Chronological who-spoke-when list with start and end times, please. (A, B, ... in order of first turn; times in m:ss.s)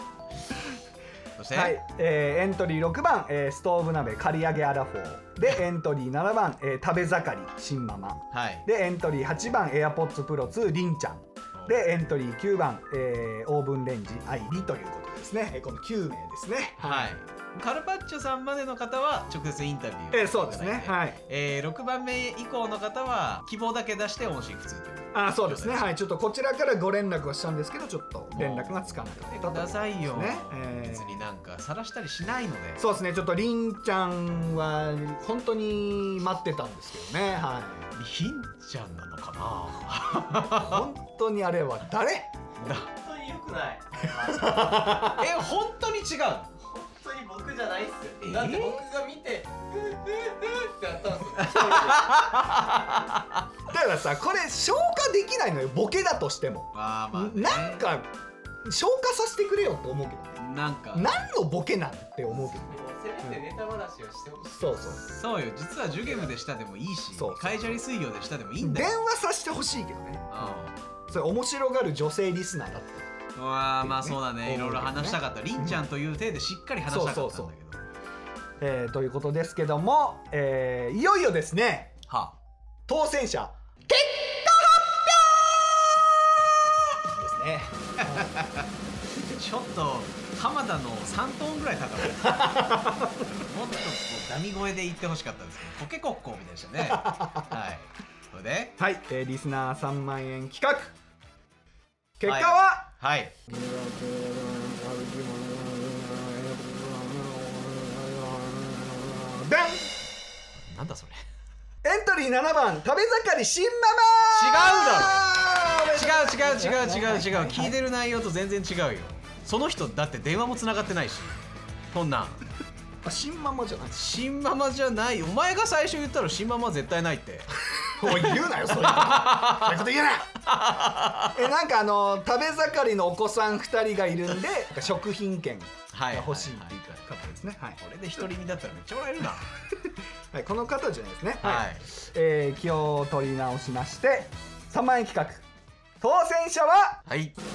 0:01.4-0:01.8 A
0:01.5-0:17.1 B
0:08.3-0:08.6 A
0:11.5-0:11.8 A
0:16.8-0:25.9 A
0:20.1-0:21.2 B
0:25.1-0:31.2 B
0:28.3-0:32.8 A
0:32.8-0:37.9 B
0:37.9-0:40.9 A
0:40.5-0:42.3 B
0:42.6-0:42.9 A
0:42.8-0:45.2 C
0:44.3-0:45.3 B
0:45.1-0:46.5 A
0:46.6-0:52.4 C
0:48.2-0:48.8 A
0:51.4-0:53.4 A
0:53.7-0:58.1 B
0:56.7-0:57.8 A
0:58.6-1:00.4 B
1:00.4-1:01.1 A
1:00.9-1:03.4 B
1:02.5-1:05.2 C
1:04.6-1:05.0 B
1:05.1-1:08.9 A
1:06.0-1:06.4 C
1:07.1-1:07.8 B
1:08.6-1:15.8 B
1:10.3-1:10.8 A
1:13.4-1:17.8 A
1:16.9-1:17.5 B
1:18.6-1:21.9 B
1:22.1-1:22.4 A
1:22.9-1:25.7 B
1:26.9-1:28.4 B
1:28.0-1:28.7 A
1:29.2-1:38.8 A
1:32.2-1:33.2 B
1:36.9-1:37.4 B
1:38.8-1:40.9 B
1:42.2-1:42.9 B
1:42.2-1:43.3 A
1:43.5-1:49.9 B
1:50.6-1:51.2 A
1:51.8-1:57.8 B
1:54.3-2:01.4 A
2:01.9-2:02.4 A
2:03.0-2:04.0 B
2:03.9-2:09.8 A
2:07.8-2:10.4 B
2:10.4-2:11.4 A
2:11.3-2:18.2 B
2:15.9-2:17.0 A
2:17.8-2:19.5 A
2:20.3-2:25.4 B
2:21.4-2:21.8 A
2:26.0-2:27.0 B
2:27.0-2:27.4 A